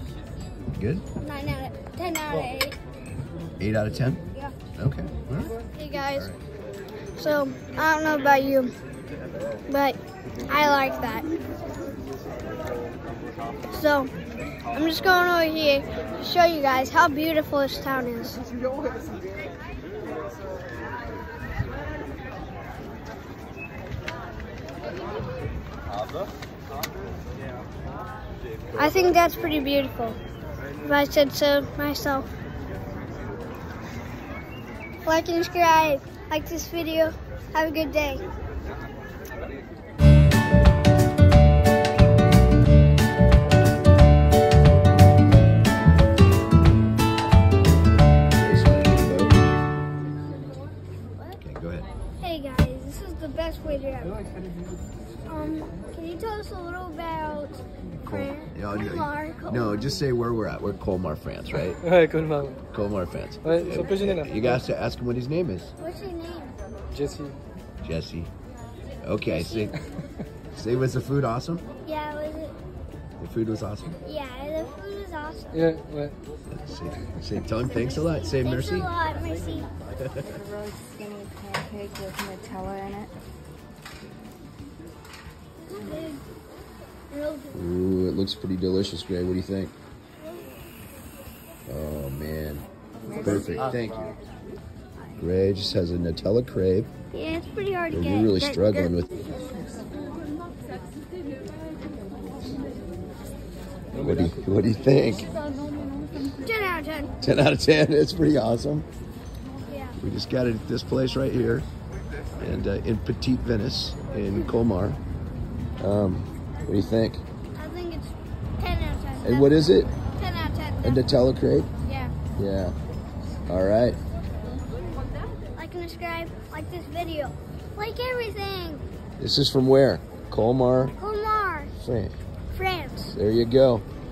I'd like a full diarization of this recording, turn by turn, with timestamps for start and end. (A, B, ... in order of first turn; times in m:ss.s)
0:00.7-0:01.0 A
0:01.2-0:02.8 B
0:03.6-0:04.2 A
0:04.7-0:06.4 A
0:05.7-0:06.3 B
0:07.2-0:08.7 B
0:09.7-0:11.3 B
0:13.7-0:14.1 B
0:14.7-0:18.4 B
0:28.7-0:30.2 B
0:30.8-0:32.2 B
0:35.0-0:38.2 B
0:48.3-0:49.4 A
0:51.4-0:51.9 A
0:52.2-0:54.2 B
0:55.2-0:59.8 B
0:58.0-1:01.8 A
1:01.8-1:02.6 C
1:02.7-1:05.7 A
1:03.5-1:04.4 C
1:05.8-1:06.6 B
1:06.9-1:07.4 C
1:07.8-1:08.3 A
1:09.0-1:09.7 A
1:09.2-1:09.7 B
1:10.5-1:11.6 A
1:11.8-1:12.5 B
1:13.2-1:14.0 A
1:14.0-1:15.6 B
1:15.5-1:16.2 C
1:16.5-1:18.9 A
1:17.7-1:19.7 B
1:19.9-1:20.4 A
1:20.2-1:23.1 D
1:25.7-1:26.2 B
1:27.1-1:27.6 B
1:27.5-1:29.7 A
1:31.7-1:34.1 A
1:33.0-1:34.1 D
1:35.2-1:36.9 A
1:37.1-1:39.0 B
1:37.9-1:39.1 A
1:43.9-1:45.3 A
1:46.3-1:47.1 B
1:47.2-1:48.9 A
1:49.7-1:50.0 B
1:50.0-1:51.6 A
1:52.4-1:55.0 A
1:55.8-1:57.2 A
1:57.5-2:01.0 B
1:59.2-1:59.9 A
2:00.8-2:01.7 A
2:01.8-2:02.1 B
2:02.3-2:02.7 A
2:03.5-2:04.0 A
2:05.6-2:08.8 B
2:09.2-2:10.9 A
2:11.0-2:11.7 B
2:11.7-2:12.2 A
2:12.5-2:13.1 B
2:13.0-2:13.8 A